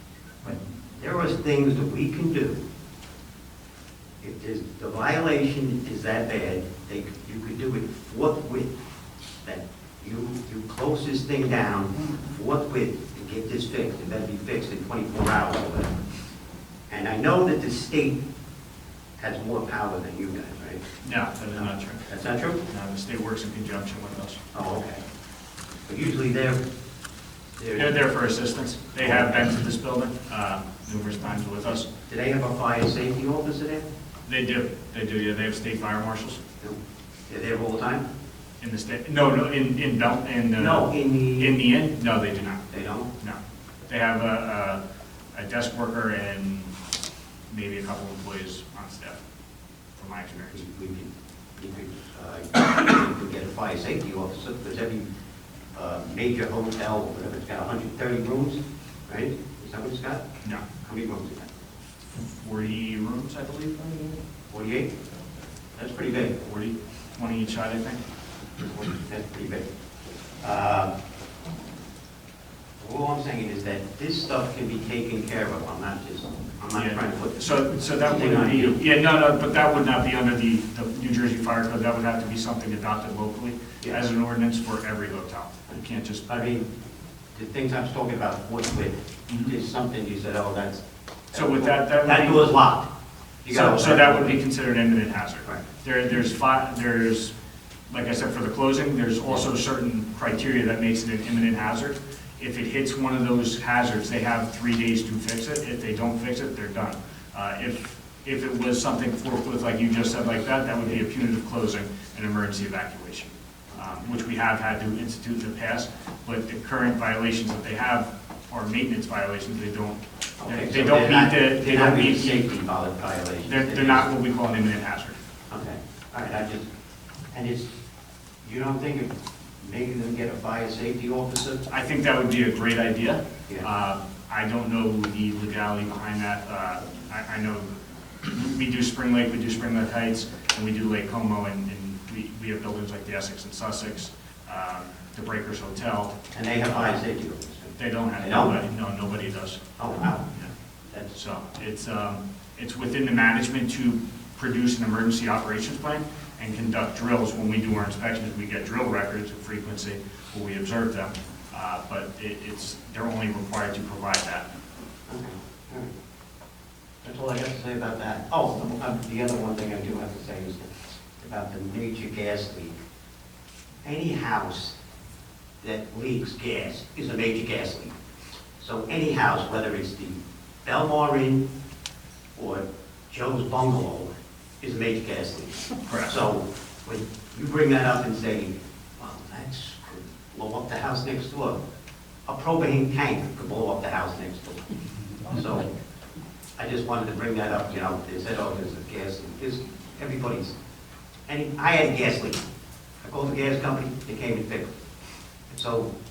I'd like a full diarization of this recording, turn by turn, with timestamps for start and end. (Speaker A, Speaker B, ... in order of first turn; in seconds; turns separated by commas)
Speaker A: 0.4-2.6, Speaker A: 4.2-8.7, Speaker A: 9.4-15.9, Speaker A: 16.9-18.2, Speaker A: 19.2-20.8, Speaker B: 21.0-22.1, Speaker A: 21.5-22.6, Speaker B: 22.6-24.4, Speaker A: 24.5-25.0, Speaker A: 25.9-26.6, Speaker A: 27.6-27.9, Speaker B: 27.8-31.9, Speaker A: 29.0-29.4, Speaker A: 32.0-33.9, Speaker B: 34.3-36.4, Speaker A: 37.3-38.0, Speaker B: 38.6-42.6, Speaker A: 40.6-41.6, Speaker A: 42.7-43.1, Speaker B: 43.2-44.8, Speaker B: 45.3-46.7, Speaker B: 47.5-49.2, Speaker B: 50.0-50.6, Speaker A: 50.5-55.0, Speaker A: 55.7-60.2, Speaker A: 60.8-61.5, Speaker B: 62.1-64.2, Speaker A: 64.5-64.9, Speaker A: 65.8-66.4, Speaker B: 66.4-68.0, Speaker A: 68.6-69.7, Speaker A: 70.4-70.9, Speaker A: 72.8-78.8, Speaker B: 76.7-86.5, Speaker A: 85.7-86.7, Speaker A: 87.3-92.9, Speaker B: 91.3-92.5, Speaker A: 93.4-94.4, Speaker B: 93.5-97.3, Speaker B: 97.9-122.5, Speaker A: 120.4-124.1, Speaker B: 123.4-125.2, Speaker A: 125.5-126.7, Speaker A: 127.3-127.8, Speaker A: 128.4-131.6, Speaker B: 131.7-137.7, Speaker B: 138.2-146.2, Speaker A: 146.3-148.5, Speaker B: 147.8-149.7, Speaker A: 149.8-150.3, Speaker B: 151.1-164.5, Speaker A: 165.1-165.9, Speaker A: 167.0-172.7, Speaker A: 173.8-174.8, Speaker A: 175.6-177.9, Speaker A: 178.6-181.5, Speaker A: 182.3-184.1, Speaker A: 184.6-191.6, Speaker B: 185.9-186.1, Speaker A: 192.3-194.6, Speaker A: 195.3-195.7, Speaker A: 196.6-200.5, Speaker A: 201.3-202.4, Speaker A: 203.0-204.7, Speaker A: 205.5-205.9